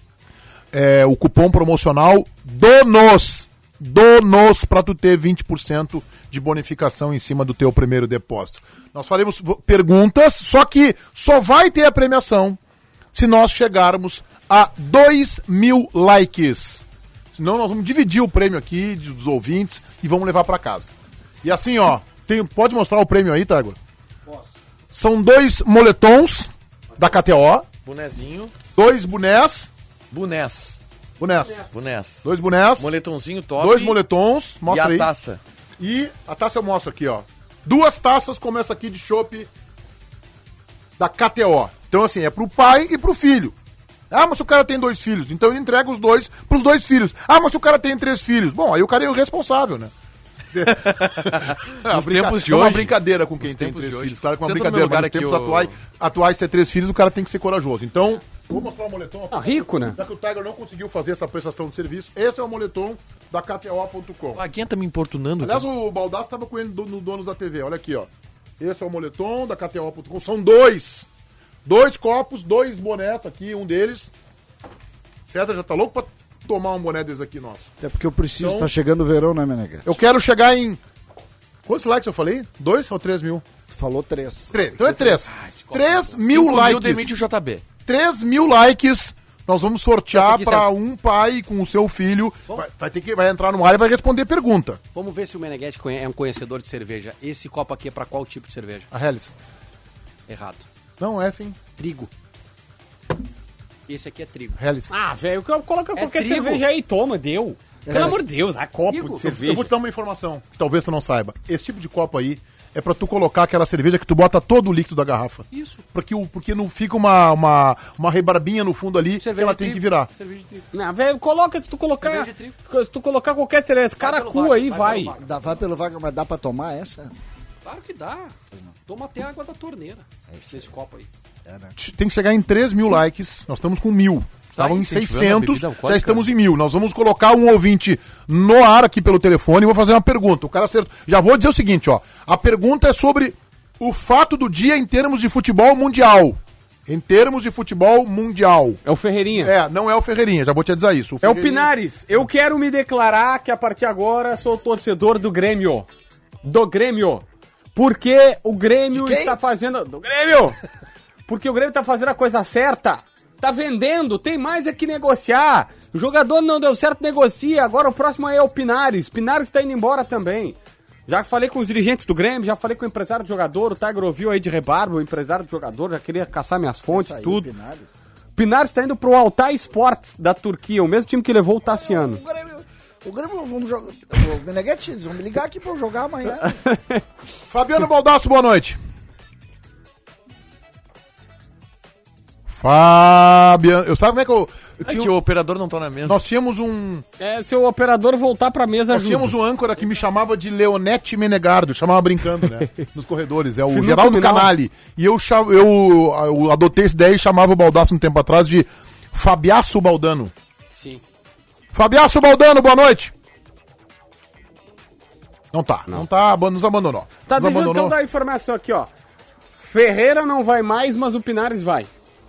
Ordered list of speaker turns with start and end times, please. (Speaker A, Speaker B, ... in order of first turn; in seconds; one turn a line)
Speaker A: 0.7-12.6
Speaker A: 13.1-16.8
Speaker A: 17.4-23.8
Speaker A: 24.9-27.7
Speaker B: 27.8-28.6
Speaker A: 28.7-29.7
Speaker B: 30.1-30.8
Speaker A: 31.2-31.7
Speaker B: 31.6-32.2
Speaker A: 32.2-32.9
Speaker B: 32.8-34.0
Speaker A: 33.6-35.1
Speaker B: 34.7-35.4
Speaker A: 35.8-39.5
Speaker A: 41.0-43.5
Speaker A: 44.1-49.9
Speaker A: 50.5-64.4
Speaker B: 50.8-51.4
Speaker B: 51.9-55.8
Speaker C: 59.3-60.0
Speaker B: 64.3-65.7
Speaker A: 65.4-71.1
Speaker A: 71.7-74.1
Speaker A: 75.3-77.7
Speaker D: 77.8-80.0
Speaker A: 78.4-78.7
Speaker A: 79.8-80.8
Speaker A: 81.7-83.4
Speaker D: 83.7-85.2
Speaker A: 84.5-87.2
Speaker E: 85.3-86.3
Speaker B: 86.3-87.7
Speaker A: 87.8-94.8
Speaker E: 90.1-90.7
Speaker E: 94.9-98.9
Speaker A: 98.9-99.3
Speaker E: 100.3-100.7
Speaker A: 101.0-101.6
Speaker E: 101.8-102.1
Speaker E: 103.9-104.6
Speaker A: 104.6-104.9
Speaker C: 104.9-109.7
Speaker E: 106.0-106.6
Speaker D: 107.8-108.2
Speaker E: 108.9-109.3
Speaker A: 109.2-120.1
Speaker E: 115.5-115.8
Speaker E: 119.2-120.7
Speaker C: 120.7-125.1
Speaker E: 122.0-122.6
Speaker E: 124.0-125.6
Speaker D: 125.2-127.2
Speaker E: 127.7-128.3
Speaker E: 128.9-131.1
Speaker D: 130.3-130.7
Speaker D: 131.5-131.8
Speaker A: 131.8-148.8
Speaker B: 134.6-136.3
Speaker C: 148.8-149.5
Speaker A: 149.4-151.7
Speaker C: 151.2-155.9
Speaker C: 156.4-157.2
Speaker C: 157.8-160.6
Speaker D: 159.0-159.3
Speaker C: 161.3-170.6
Speaker C: 171.1-177.5
Speaker D: 176.9-177.9
Speaker C: 178.4-182.2
Speaker D: 181.6-186.6
Speaker C: 186.4-187.0
Speaker A: 187.5-188.8
Speaker A: 192.5-195.1
Speaker B: 194.8-196.2
Speaker A: 196.1-197.1
Speaker C: 197.2-199.3
Speaker A: 198.9-210.3
Speaker C: 203.7-204.5
Speaker E: 210.8-211.0
Speaker A: 211.7-213.1
Speaker A: 215.5-218.0
Speaker C: 217.3-218.9
Speaker C: 219.6-221.9